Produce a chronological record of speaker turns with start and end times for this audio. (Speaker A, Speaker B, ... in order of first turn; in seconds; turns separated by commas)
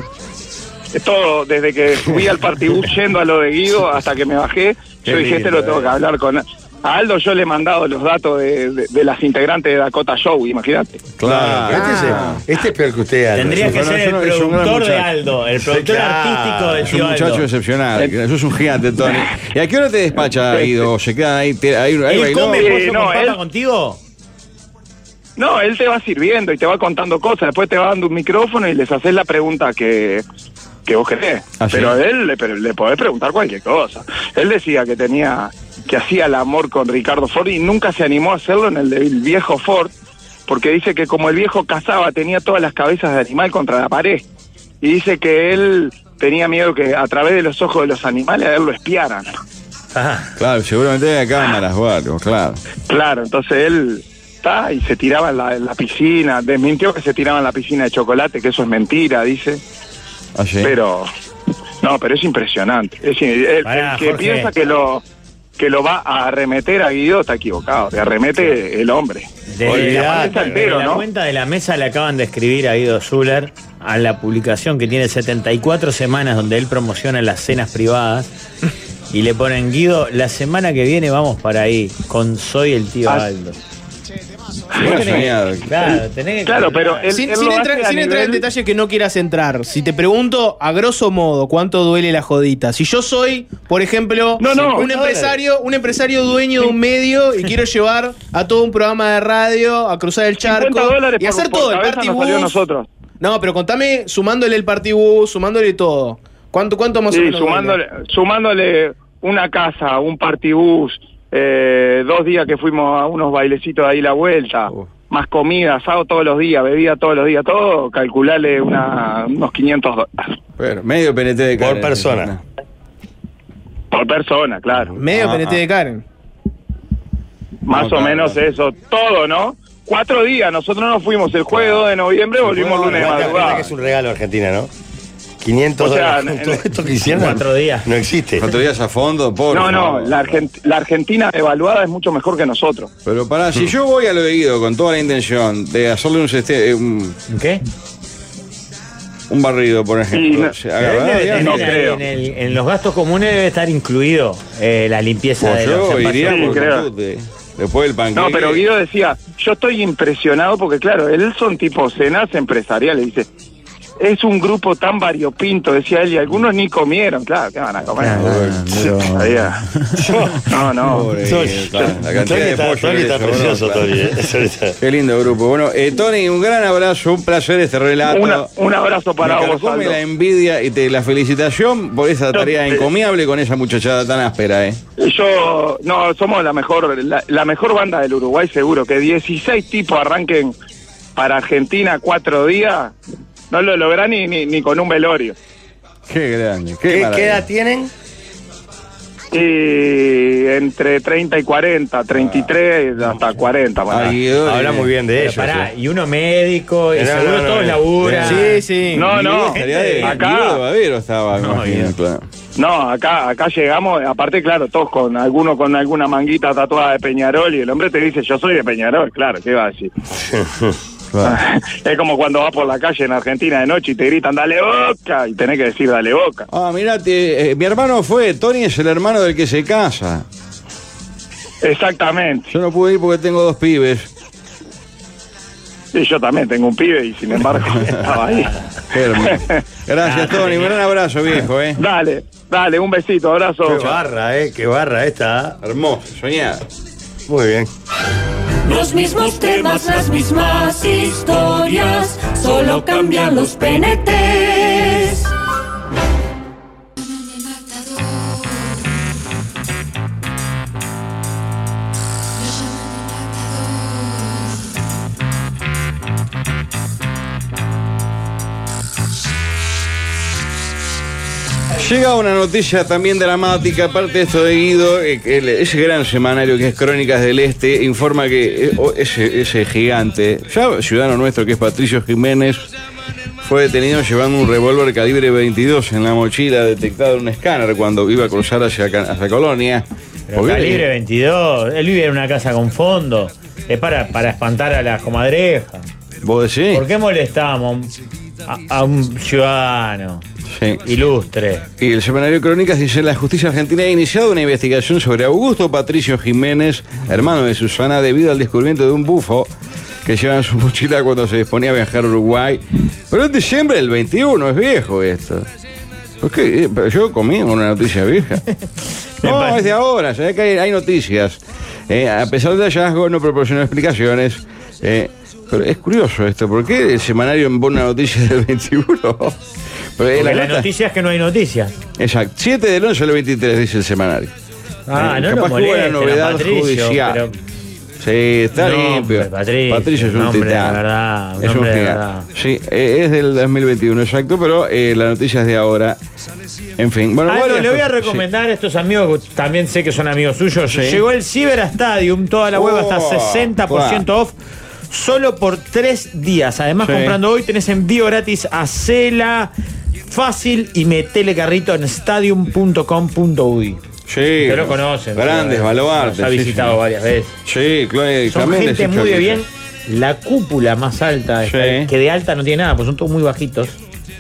Speaker A: 0.9-11.1, Speaker B: 5.0-5.9, Speaker C: 11.2-12.4, Speaker B: 11.2-13.8, Speaker D: 11.7-12.4, Speaker D: 13.3-17.5, Speaker C: 13.5-15.1, Speaker B: 15.6-16.9, Speaker C: 16.8-22.7, Speaker A: 20.3-20.9, Speaker D: 22.1-24.0, Speaker A: 22.6-23.4, Speaker A: 25.4-30.2, Speaker A: 30.9-39.9, Speaker C: 31.6-32.0, Speaker A: 40.5-44.2, Speaker A: 44.8-49.3, Speaker C: 50.4-52.6, Speaker A: 52.9-59.6, Speaker C: 60.4-60.7, Speaker A: 60.6-61.1, Speaker A: 61.8-65.0, Speaker D: 63.6-64.5, Speaker A: 65.6-71.0, Speaker D: 69.5-78.3, Speaker B: 69.6-70.7, Speaker D: 79.1-83.5, Speaker D: 84.8-87.1, Speaker C: 84.8-85.9, Speaker A: 86.4-88.4, Speaker E: 87.1-102.6, Speaker A: 94.4-94.9, Speaker B: 94.8-95.4, Speaker A: 100.4-102.9, Speaker E: 103.2-107.8, Speaker A: 107.1-120.3, Speaker C: 120.6-122.4, Speaker B: 121.6-122.3, Speaker A: 123.9-125.0, Speaker E: 125.0-126.0, Speaker C: 125.1-125.6, Speaker A: 127.7-133.6, Speaker C: 127.7-128.4, Speaker C: 131.5-131.9, Speaker C: 132.4-133.7, Speaker B: 132.8-134.7, Speaker B: 135.4-138.5, Speaker A: 135.8-136.6, Speaker D: 137.1-137.9, Speaker C: 138.4-140.4, Speaker A: 139.5-142.9, Speaker C: 143.0-147.2, Speaker D: 147.3-147.6, Speaker C: 149.3-151.9, Speaker A: 150.1-150.6, Speaker D: 150.8-156.6, Speaker A: 151.3-152.0, Speaker C: 155.4-158.6, Speaker A: 156.2-156.9, Speaker A: 158.1-163.3, Speaker A: 164.0-168.3, Speaker D: 168.0-170.1, Speaker C: 168.1-168.7, Speaker A: 169.0-169.6, Speaker B: 170.0-170.5, Speaker A: 170.5-171.1, Speaker C: 170.8-174.0, Speaker B: 171.2-174.8, Speaker C: 174.8-178.5, Speaker A: 178.1-180.0, Speaker C: 179.2-184.8, Speaker A: 182.3-182.9, Speaker A: 185.0-190.5, Speaker A: 191.2-192.9, Speaker A: 193.5-195.3, Speaker C: 196.1-197.4, Speaker B: 196.9-197.9, Speaker A: 199.3-204.2, Speaker C: 202.1-202.5, Speaker C: 203.9-204.9, Speaker B: 204.4-205.7, Speaker D: 205.2-208.6, Speaker B: 206.9-208.0, Speaker C: 208.0-212.2, Speaker E: 208.2-209.1, Speaker A: 208.9-210.6, Speaker D: 209.5-210.2, Speaker D: 211.4-211.9, Speaker A: 212.6-219.9, Speaker B: 220.3-220.7, Speaker C: 221.1-221.4, Speaker A: 221.2-226.5, Speaker C: 226.5-230.2, Speaker A: 231.6-232.5, Speaker C: 232.5-234.1, Speaker A: 235.9-238.5, Speaker C: 238.9-241.8, Speaker A: 239.2-239.6, Speaker D: 240.0-240.8, Speaker A: 241.8-244.0, Speaker B: 243.6-245.6, Speaker C: 245.6-246.6, Speaker B: 247.3-247.7, Speaker F: 248.6-255.2, Speaker C: 271.8-282.7, Speaker C: 283.4-290.9, Speaker D: 290.3-295.9, Speaker C: 296.2-296.9, Speaker D: 296.7-297.9, Speaker D: 298.4-300.2, Speaker C: 300.5-300.8, Speaker D: 300.8-301.7, Speaker C: 301.8-309.5, Speaker C: 310.0-315.5, Speaker C: 316.2-318.4, Speaker C: 319.2-329.4, Speaker D: 319.2-319.7, Speaker C: 330.0-330.7, Speaker D: 330.1-331.7, Speaker C: 332.0-334.3, Speaker D: 334.9-337.3, Speaker C: 334.9-337.2, Speaker C: 338.0-340.8, Speaker D: 338.5-342.3, Speaker C: 341.4-346.0, Speaker C: 346.8-348.2, Speaker D: 347.3-354.3, Speaker C: 350.7-351.0, Speaker C: 352.5-354.1, Speaker D: 354.9-359.5, Speaker C: 356.8-357.2, Speaker D: 360.1-363.8, Speaker C: 364.1-366.8, Speaker D: 364.4-367.4, Speaker C: 367.4-369.4, Speaker D: 368.3-373.8, Speaker C: 371.4-371.9